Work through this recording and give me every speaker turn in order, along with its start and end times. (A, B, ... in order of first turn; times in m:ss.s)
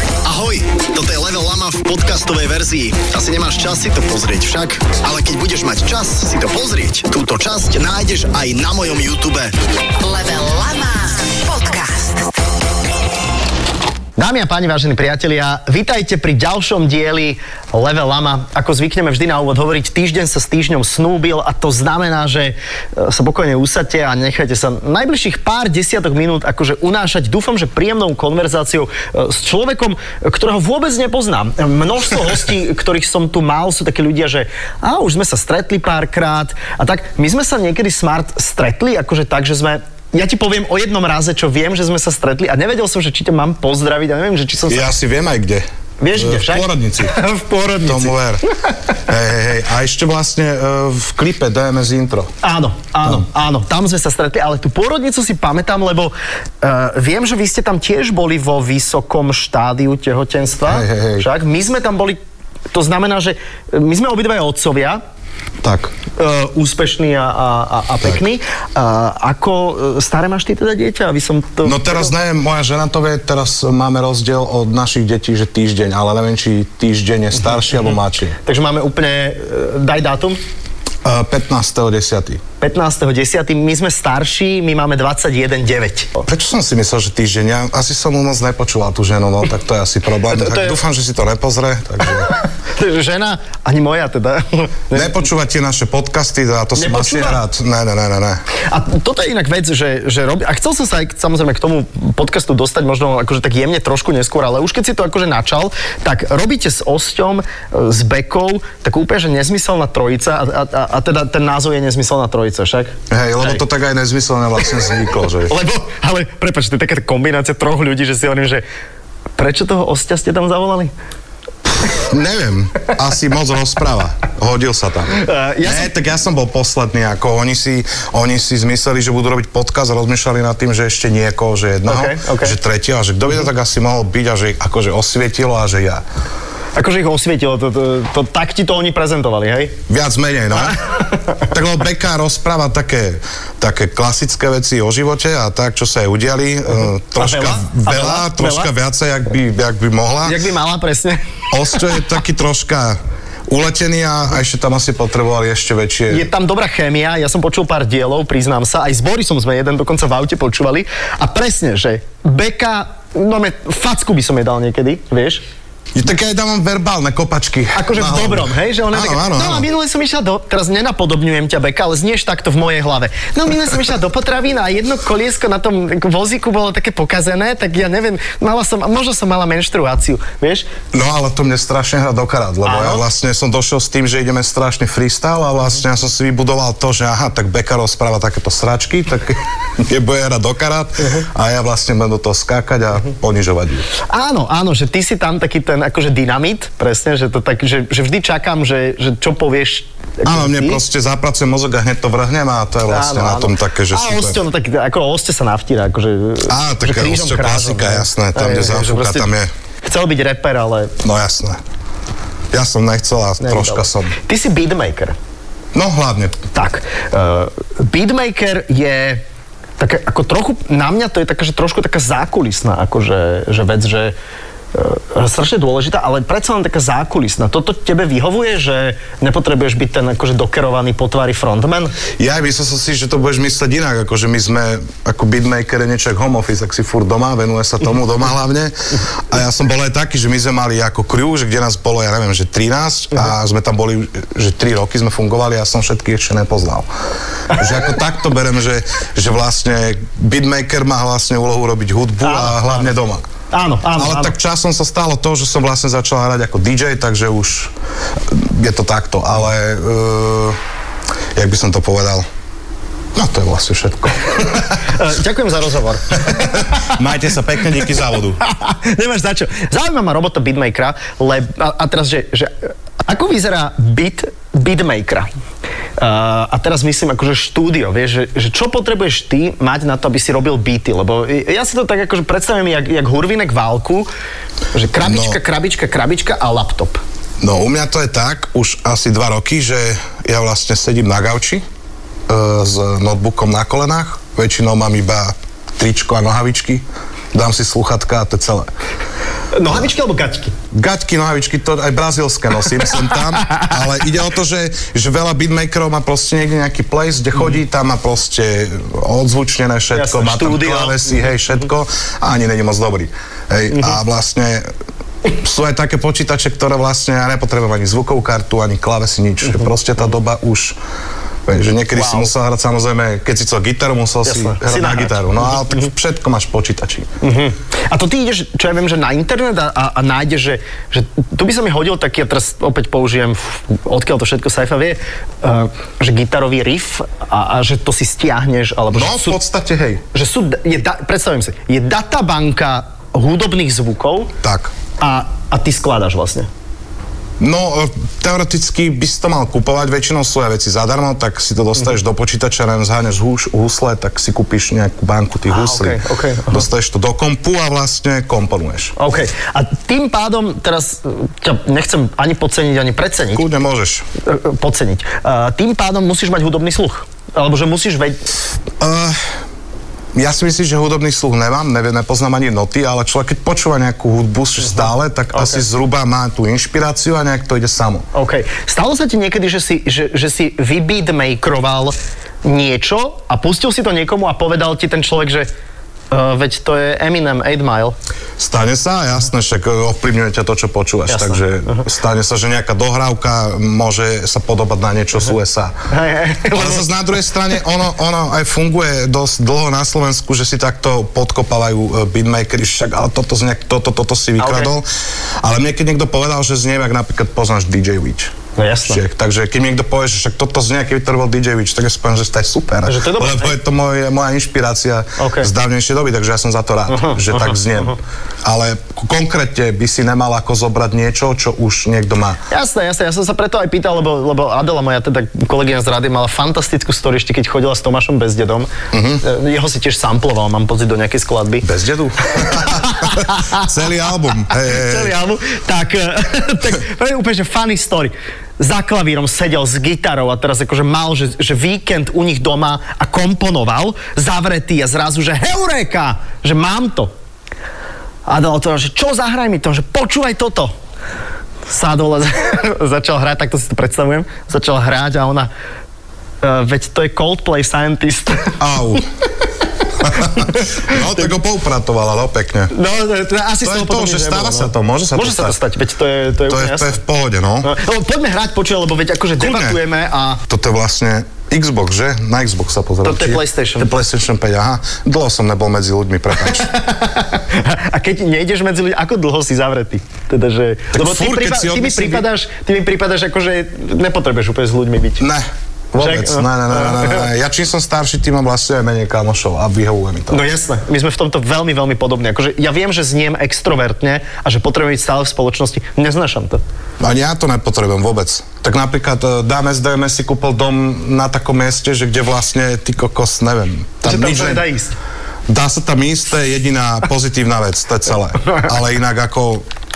0:00.2-0:09.5 A
0:10.0-0:12.3 B
0:14.2-0:44.9 A
0:44.7-0:47.1 C
0:46.0-0:48.2 A
0:47.8-0:48.4 C
0:49.0-0:52.3 C
0:52.4-1:02.2 A
1:00.6-1:01.3 C
1:02.7-1:05.0 A
1:05.6-1:05.9 C
1:06.2-1:12.1 A
1:11.6-1:18.4 C
1:18.4-1:20.4 A
1:21.0-1:22.4 C
1:22.6-1:26.2 A
1:26.3-1:32.3 C
1:30.3-1:30.8 A
1:32.6-1:35.2 A
1:34.9-1:38.4 C
1:36.8-1:37.4 A
1:38.7-1:53.6 A
1:53.1-1:55.5 C
1:55.5-1:58.6 A
1:59.4-2:00.9 A
2:01.8-2:16.0 C
2:05.1-2:05.9 A
2:11.9-2:12.6 A
2:16.8-2:19.8 A
2:19.9-2:20.8 C
2:20.7-2:21.4 A
2:21.4-2:30.4 C
2:27.2-2:28.7 A
2:30.2-2:32.0 A
2:31.5-2:36.3 C
2:36.1-2:45.4 A
2:45.9-2:49.7 C
2:47.7-3:00.7 A
3:00.9-3:13.9 C
3:02.6-3:03.0 A
3:14.0-3:20.8 A
3:20.2-3:24.4 C
3:22.9-3:29.3 A
3:26.5-3:29.5 C
3:29.8-3:31.0 A
3:31.0-3:31.6 C
3:32.5-3:34.1 C
3:33.4-3:35.2 A
3:35.7-3:36.5 C
3:36.5-3:39.2 A
3:39.8-3:44.1 A
3:44.7-3:52.0 A
3:52.2-4:06.9 C
4:07.5-4:13.2 C
4:12.2-4:12.8 A
4:13.5-4:14.3 A
4:13.9-4:20.6 C
4:21.3-4:22.2 C
4:23.1-4:25.0 C
4:24.8-4:27.0 A
4:26.3-4:28.4 C
4:28.4-4:35.3 A
4:36.0-4:44.1 A
4:44.7-4:47.0 A
4:45.0-4:45.4 C
4:47.4-4:51.6 C
4:52.3-4:58.7 C
4:59.5-5:00.6 A
5:00.7-5:14.7 C
5:03.4-5:03.7 A
5:09.9-5:11.2 A
5:15.3-5:20.8 C
5:21.4-5:27.1 C
5:21.9-5:22.3 A
5:24.2-5:25.8 A
5:27.2-5:39.4 A
5:38.9-5:40.0 C
5:40.1-5:44.3 A
5:44.4-5:44.7 C
5:45.0-5:46.5 A
5:47.4-5:58.9 C
5:55.5-5:56.6 A
5:59.0-6:03.5 A
6:03.3-6:04.0 C
6:04.2-6:08.2 A
6:08.8-6:09.2 C
6:10.1-6:18.0 C
6:14.6-6:15.6 A
6:18.1-6:25.5 A
6:26.1-6:28.0 A
6:28.4-6:35.8 C
6:31.1-6:31.8 A
6:35.9-6:36.9 A
6:36.5-6:44.9 C
6:44.4-6:44.7 A
6:45.4-7:02.4 C
6:48.6-6:49.0 A
6:52.8-6:53.6 A
6:55.2-6:55.5 A
6:56.9-6:57.9 A
7:02.5-7:11.7 A
7:08.9-7:09.2 C
7:11.6-7:15.2 C
7:12.3-7:13.6 A
7:14.5-7:27.1 A
7:28.2-7:30.7 A
7:31.7-7:35.5 A
7:36.4-7:38.6 A
7:38.6-7:39.1 C
7:40.0-7:42.7 C
7:40.1-7:41.3 A
7:42.7-7:47.0 A
7:43.6-7:45.6 C
7:46.5-7:47.7 C
7:47.6-7:50.4 A
7:49.4-7:49.8 C
7:50.5-7:56.7 C
7:53.0-7:53.9 A
7:56.6-8:05.2 A
8:00.9-8:02.2 C
8:05.2-8:10.4 C
8:06.0-8:07.3 A
8:10.3-8:16.6 A
8:17.0-8:24.7 C
8:24.0-8:24.9 A
8:25.5-8:29.6 C